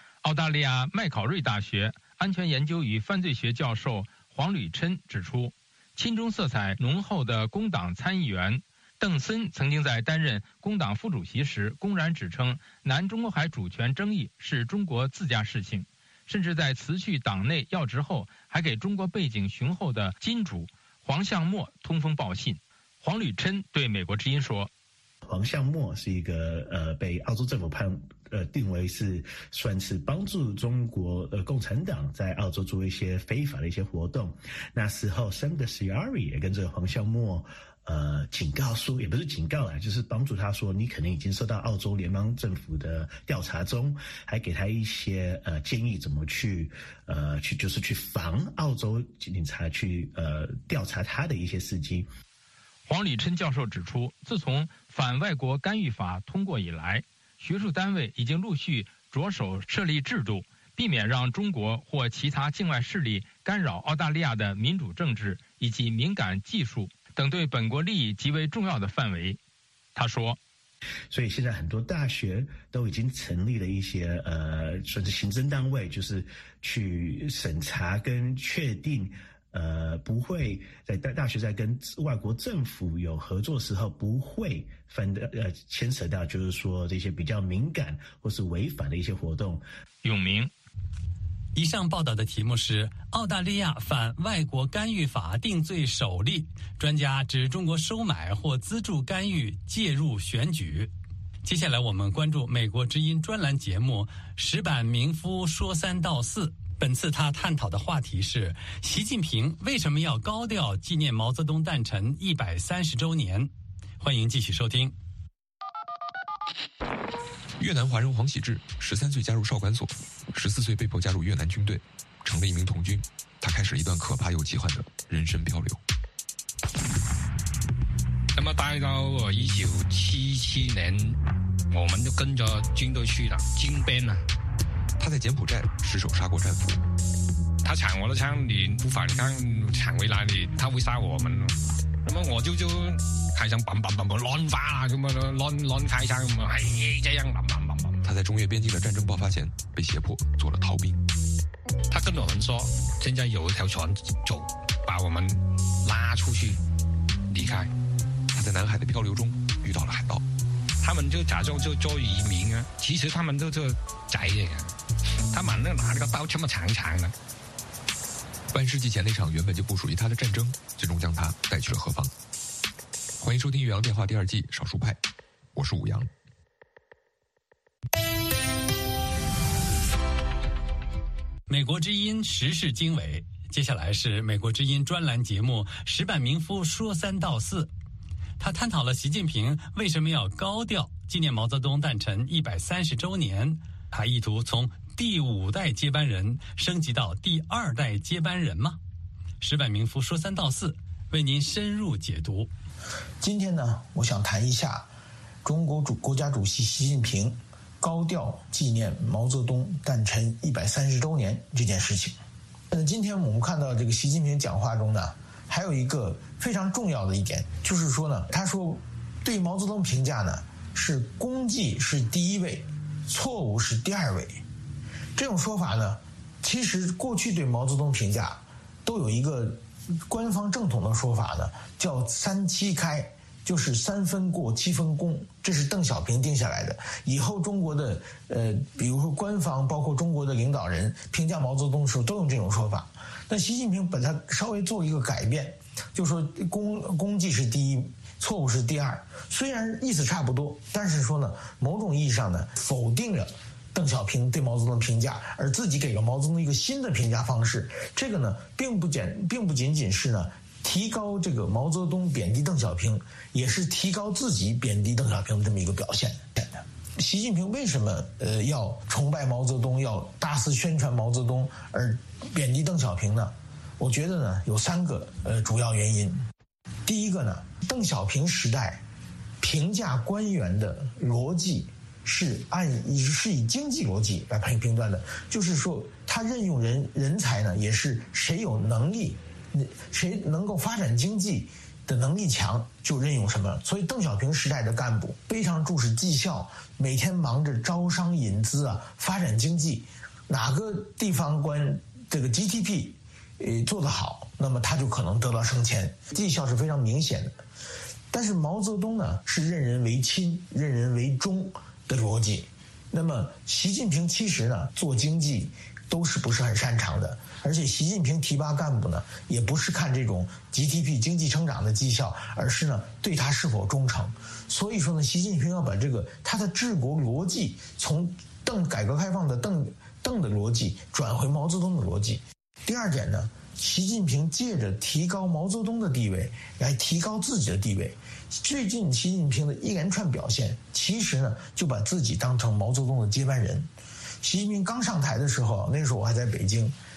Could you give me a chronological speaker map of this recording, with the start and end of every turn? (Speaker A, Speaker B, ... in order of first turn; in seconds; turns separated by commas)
Speaker A: 0.2-24.7, Speaker B: 25.2-52.1, Speaker A: 52.9-69.4, Speaker A: 69.9-70.4, Speaker B: 71.1-89.7, Speaker A: 90.0-90.5, Speaker C: 91.5-100.9, Speaker C: 101.4-114.9, Speaker D: 117.6-125.8, Speaker E: 128.3-131.2, Speaker E: 131.7-134.2, Speaker D: 135.0-136.8, Speaker E: 137.6-141.5, Speaker E: 142.1-148.0, Speaker D: 148.0-151.0, Speaker E: 151.9-156.6, Speaker E: 157.3-157.7, Speaker D: 158.3-160.2, Speaker E: 160.8-164.7, Speaker E: 165.3-167.1, Speaker D: 168.5-172.1, Speaker D: 173.2-175.0, Speaker D: 175.5-176.1, Speaker C: 181.5-187.7, Speaker C: 188.4-198.8, Speaker C: 199.4-202.5, Speaker F: 203.2-204.9, Speaker F: 205.4-212.2, Speaker F: 212.7-224.4, Speaker F: 225.2-276.2, Speaker F: 276.9-278.8, Speaker F: 279.4-307.4, Speaker F: 308.1-343.7, Speaker F: 344.2-346.8